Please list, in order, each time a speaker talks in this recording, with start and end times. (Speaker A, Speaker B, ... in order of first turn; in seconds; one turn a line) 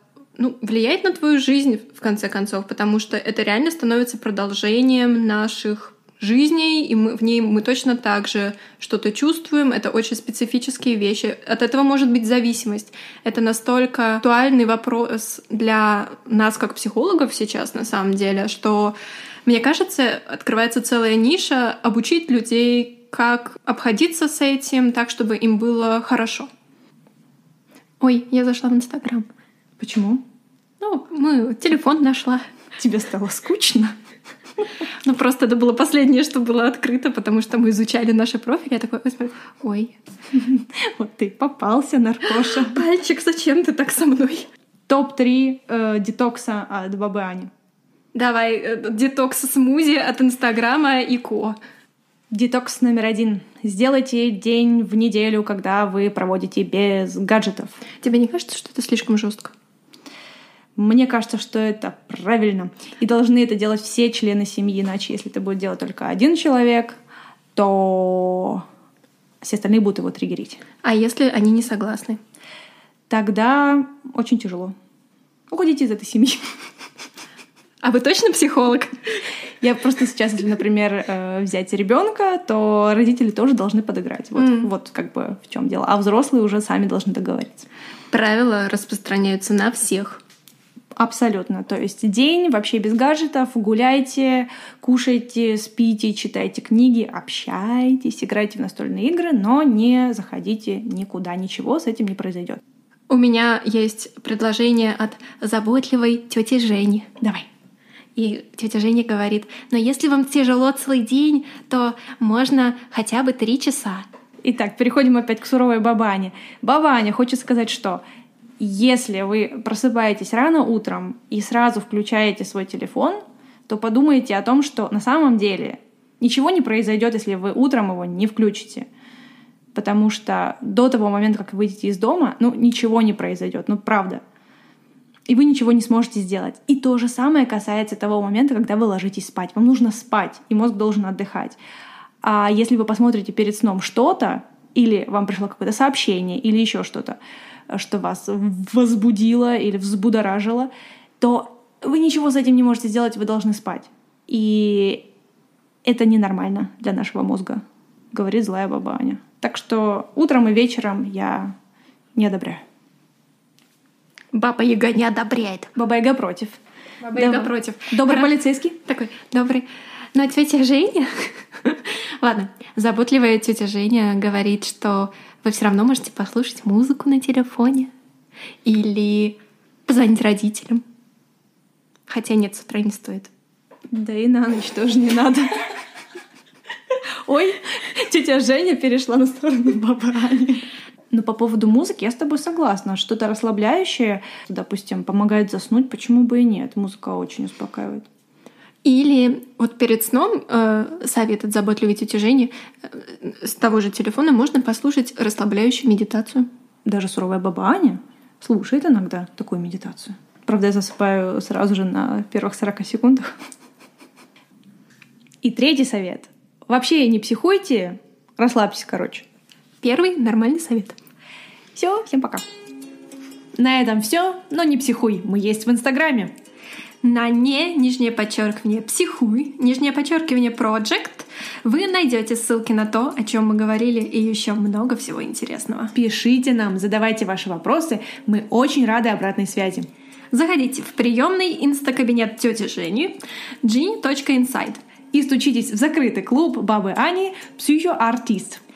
Speaker A: 0.4-26.5
Speaker A: 28.0-29.3
Speaker B: 29.8-30.2
Speaker A: 30.8-32.4
Speaker B: 32.8-33.9
Speaker A: 35.0-40.0
Speaker B: 40.3-42.8
Speaker A: 42.5-44.5
Speaker B: 44.9-47.5
Speaker A: 48.1-51.5
Speaker B: 52.3-57.8
Speaker A: 58.0-59.5
Speaker B: 60.8-67.0
Speaker B: 67.5-68.6
Speaker B: 69.4-70.6
Speaker A: 70.8-72.2
Speaker B: 73.1-74.7
Speaker B: 75.5-76.4
Speaker A: 77.8-79.2
Speaker B: 79.6-87.7
Speaker A: 84.3-84.7
Speaker A: 88.1-90.2
Speaker B: 91.0-102.6
Speaker A: 103.1-107.1
Speaker B: 107.2-107.5
Speaker A: 108.2-114.0
Speaker B: 114.4-118.0
Speaker B: 118.6-128.9
Speaker B: 129.7-134.2
Speaker B: 135.3-141.6
Speaker B: 142.2-147.2
Speaker B: 147.7-155.0
Speaker B: 155.8-161.5
Speaker B: 162.2-162.6
Speaker A: 164.3-165.7
Speaker B: 165.7-166.6
Speaker A: 167.0-168.3
Speaker B: 167.1-168.8
Speaker A: 168.8-177.9
Speaker A: 178.6-180.8
Speaker A: 182.1-183.3
Speaker B: 183.9-185.6
Speaker B: 187.2-198.1
Speaker A: 198.8-206.5
Speaker B: 206.8-213.3
Speaker B: 215.4-219.2
Speaker A: 219.8-221.0
Speaker B: 221.7-222.4
Speaker B: 223.6-226.3
Speaker A: 227.0-235.9
Speaker B: 235.9-239.9
Speaker A: 240.3-244.8
Speaker B: 245.1-248.6